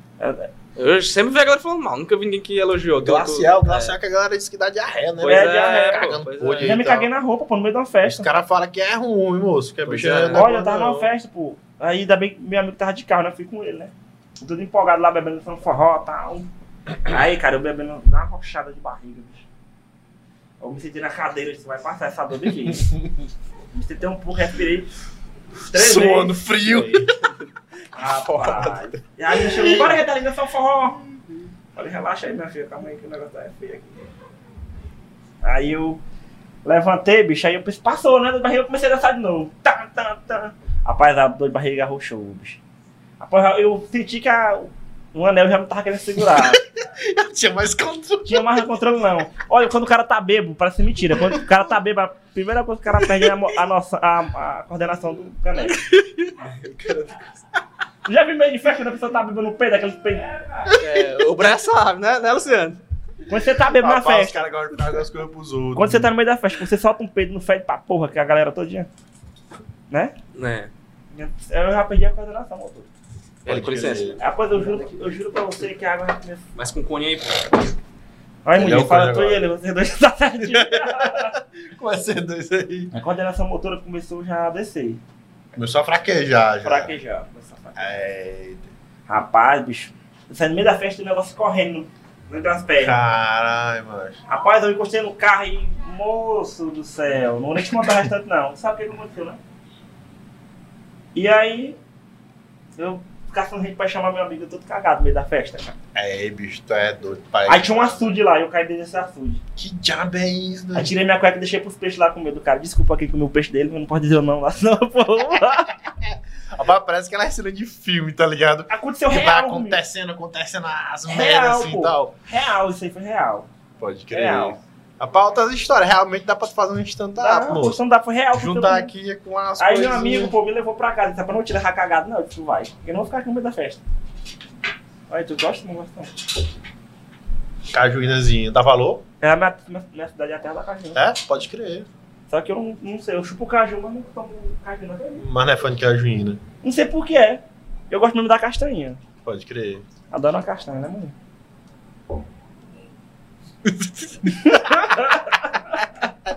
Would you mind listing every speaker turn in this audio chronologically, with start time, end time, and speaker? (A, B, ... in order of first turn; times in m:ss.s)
0:00.2-0:00.5 A
0:00.8-0:04.0 B
0:03.0-0:07.1 C
0:05.2-0:06.8 B
0:05.3-0:08.3 A
0:08.0-0:11.1 C
0:09.9-0:10.4 B
0:10.3-0:16.5 A
0:17.0-0:19.4 A
0:20.6-0:23.0 A
0:22.7-0:23.0 C
0:23.7-0:24.9 A
0:25.7-0:27.2 C
0:25.7-0:26.4 A
0:26.7-0:27.3 B
0:27.9-0:31.0 A
0:28.0-0:29.0 B
0:31.8-0:34.1 A
0:35.4-0:36.0 A
0:36.6-0:42.6 A
0:43.2-0:46.6 A
0:46.2-0:48.6 C
0:48.2-0:55.8 A
0:55.9-0:56.3 C
0:56.4-0:57.4 B
0:58.1-1:00.7 A
1:00.7-1:01.1 C
1:00.7-1:02.8 B
1:03.3-1:04.5 A
1:03.7-1:06.1 C
1:05.8-1:08.9 A
1:09.9-1:10.2 A
1:10.3-1:10.7 B
1:11.1-1:12.9 A
1:13.4-1:14.2 B
1:13.5-1:14.2 C
1:14.2-1:16.4 A
1:16.6-1:17.8 B
1:18.4-1:21.4 A
1:18.5-1:19.5 C
1:20.4-1:22.9 C
1:22.9-1:25.0 A
1:25.6-1:27.0 C
1:26.6-1:27.9 A
1:27.8-1:28.7 C
1:29.1-1:33.0 A
1:32.8-1:34.2 C
1:34.3-1:39.4 A
1:41.2-1:41.8 A
1:42.8-1:45.8 A
1:46.0-1:48.2 C
1:47.5-1:49.4 A
1:49.6-1:50.9 C
1:50.7-1:55.8 A
1:56.0-2:02.1 C
1:58.7-1:59.8 A
2:01.1-2:03.5 A
2:03.8-2:07.8 C
2:04.1-2:04.6 A
2:07.2-2:08.9 A
2:08.3-2:10.3 C
2:09.6-2:13.8 A
2:15.1-2:16.2 A
2:17.7-2:19.0 C
2:19.2-2:21.0 A
2:21.0-2:21.9 C
2:22.3-2:25.3 A
2:25.2-2:26.4 C
2:26.6-2:29.0 A
2:29.2-2:29.8 C
2:30.1-2:31.1 A
2:33.6-2:34.8 C
2:34.4-2:35.7 A